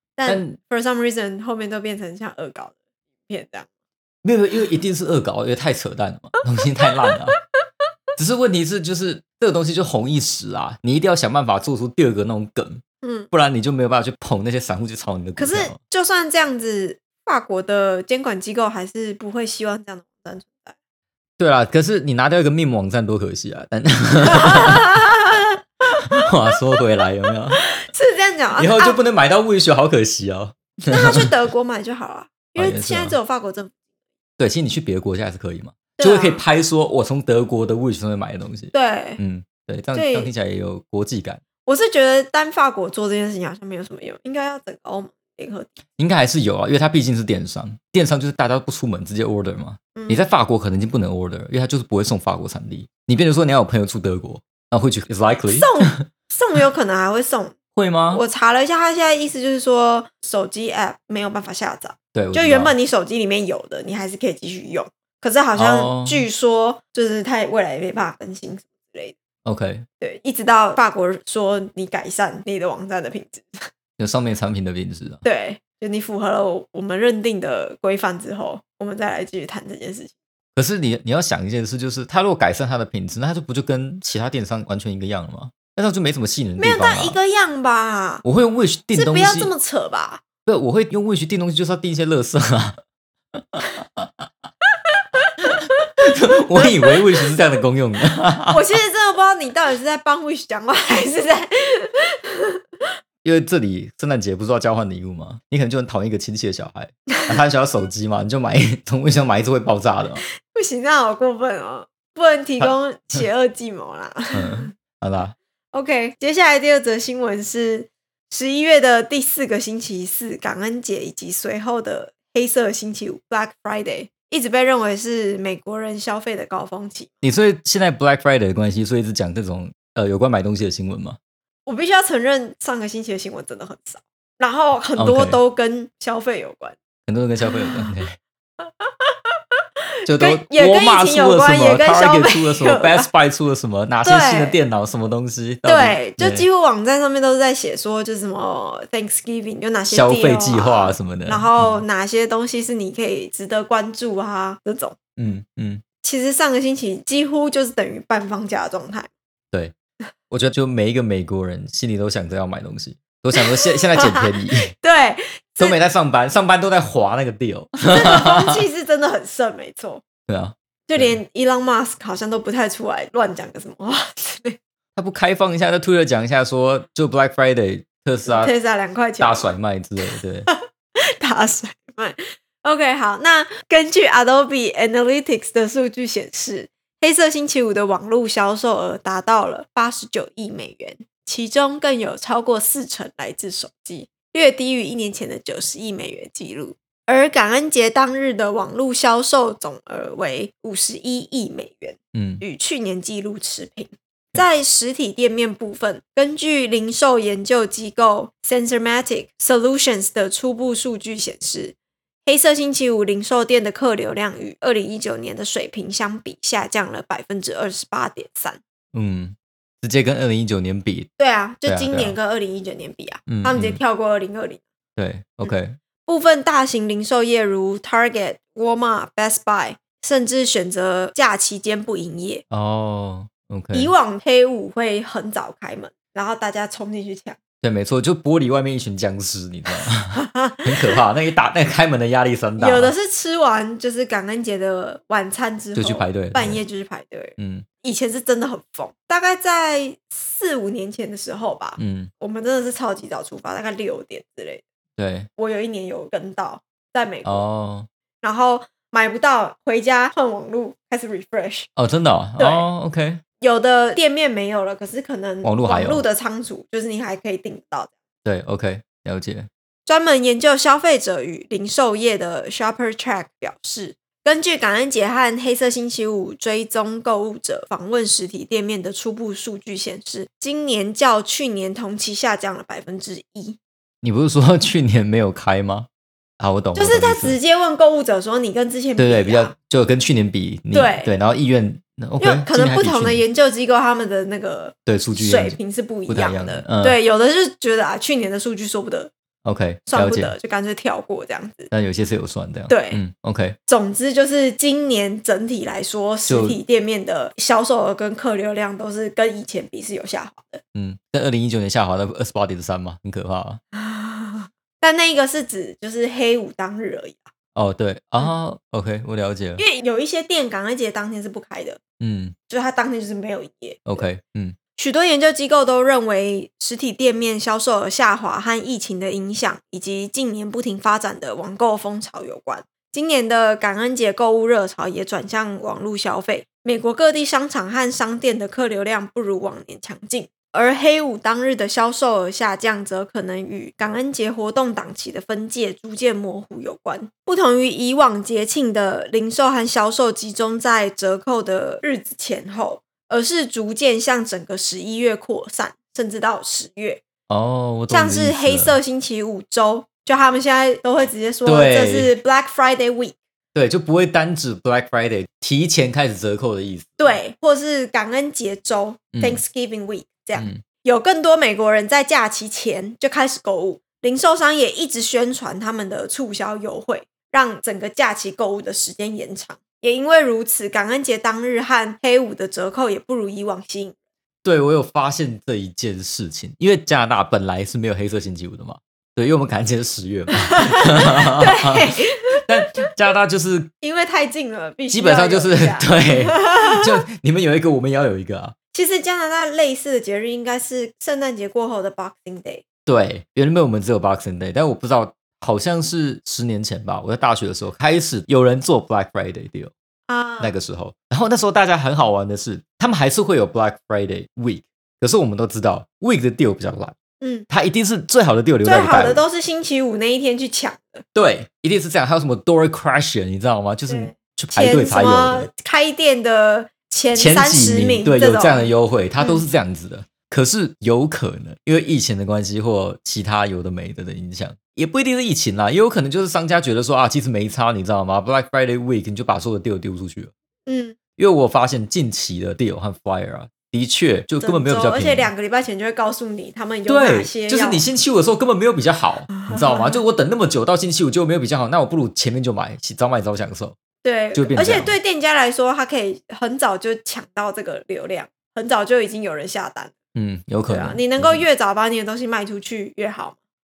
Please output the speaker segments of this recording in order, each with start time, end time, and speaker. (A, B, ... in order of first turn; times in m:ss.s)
0:00.2-0:03.7 A
0:00.2-0:00.6 B
0:04.2-0:07.4 B
0:06.8-0:07.1 A
0:08.2-0:15.8 B
0:13.0-0:13.3 A
0:15.4-0:20.7 A
0:21.4-0:24.9 B
0:24.2-0:26.0 A
0:26.2-0:27.6 B
0:27.6-0:29.0 A
0:28.6-0:31.3 B
0:30.9-0:33.7 A
0:32.5-0:33.2 B
0:34.4-0:41.4 B
0:36.0-0:36.4 A
0:38.7-0:39.2 A
0:39.9-0:40.3 A
0:41.6-0:45.7 A
0:46.0-0:56.0 B
0:49.9-0:50.2 A
0:55.5-0:57.6 A
0:57.8-0:58.2 B
0:58.1-1:09.2 A
1:02.1-1:02.7 B
1:05.6-1:06.2 B
1:09.4-1:09.8 B
1:10.0-1:13.6 A
1:14.0-1:15.2 B
1:15.2-1:20.1 A
1:20.6-1:27.2 B
1:26.6-1:28.2 A
1:28.2-1:29.5 B
1:28.9-1:30.2 A
1:30.4-1:32.8 B
1:33.3-1:34.3 B
1:34.9-1:35.9 A
1:35.6-1:38.6 B
1:36.6-1:37.0 A
1:38.5-1:42.6 A
1:43.2-1:50.2 B
1:50.5-1:54.7 A
1:54.3-1:55.3 B
1:55.7-2:07.2 A
2:07.2-2:11.2 B
2:11.6-2:16.8 A
2:15.0-2:15.4 B
2:17.1-2:18.2 B
2:17.5-2:17.9 A
2:18.6-2:19.1 A
2:20.0-2:26.4 B
2:20.2-2:23.1 A
2:24.0-2:24.6 A
2:25.6-2:35.0 A
2:29.9-2:31.8 B
2:35.2-2:35.8 B
2:36.0-2:39.1 A
2:40.3-2:44.7 B
2:43.4-2:45.8 A
2:45.6-2:48.6 B
2:47.9-2:50.0 A
2:50.3-2:51.2 B
2:50.9-2:54.6 A
2:55.0-2:58.5 B
2:58.3-2:59.5 A
2:59.2-3:00.5 B
3:01.2-3:31.7 A
3:22.1-3:22.4 B
3:32.2-3:38.6 A
3:38.9-3:41.1 B
3:41.2-3:44.6 A
3:41.6-3:42.1 B
3:43.3-3:43.8 B
3:45.0-3:45.8 B
3:46.0-3:52.4 A
3:52.5-3:53.9 B
3:53.7-3:57.4 A
3:57.6-4:02.9 B
4:00.1-4:00.8 A
4:02.6-4:14.6 A
4:05.7-4:06.6 B
4:07.4-4:07.6 B
4:11.8-4:12.1 B
4:15.0-4:15.3 B
4:15.4-4:17.4 A
4:17.2-4:17.9 B
4:18.2-4:21.7 A
4:21.8-4:23.2 B
4:22.4-4:22.6 A
4:23.4-4:27.9 A
4:25.4-4:26.0 B
4:28.2-4:29.5 B
4:29.8-4:43.6 A
4:44.0-4:45.9 B
4:46.4-4:47.4 B
4:46.7-4:49.5 A
4:49.0-4:53.2 B
4:50.7-4:51.1 A
4:52.2-4:59.1 A
4:54.9-4:57.0 B
4:59.4-5:00.3 B
4:59.9-5:01.7 A
5:01.7-5:03.6 B
5:02.7-5:03.0 A
5:03.7-5:10.6 A
5:06.3-5:06.6 B
5:10.7-5:13.6 B
5:13.7-5:17.3 A
5:17.5-5:19.6 B
5:19.6-5:21.8 A
5:22.0-5:22.3 B
5:22.5-5:24.0 A
5:23.9-5:24.6 B
5:24.8-5:57.0 A
5:57.3-5:58.8 B
5:57.9-6:03.2 A
6:01.4-6:02.1 B
6:03.5-6:07.2 B
6:07.0-6:23.9 A
6:09.1-6:09.4 B
6:10.4-6:10.6 B
6:24.4-6:33.7 B
6:30.4-6:32.7 A
6:33.8-6:36.9 A
6:34.9-6:38.5 B
6:38.7-6:42.6 A
6:42.9-6:49.7 B
6:50.1-6:50.5 A
6:50.4-6:56.9 B
6:57.2-6:57.5 A
6:57.5-6:59.2 B
6:58.6-7:01.0 A
7:01.1-7:05.5 B
7:03.9-7:09.4 A
7:07.1-7:20.3 B
7:20.6-7:21.0 A
7:21.2-7:25.3 B
7:24.4-7:27.8 A
7:26.9-7:33.8 B
7:29.3-7:30.0 A
7:34.0-7:39.9 A
7:34.3-7:34.9 B
7:40.1-7:41.4 B
7:40.7-7:43.4 A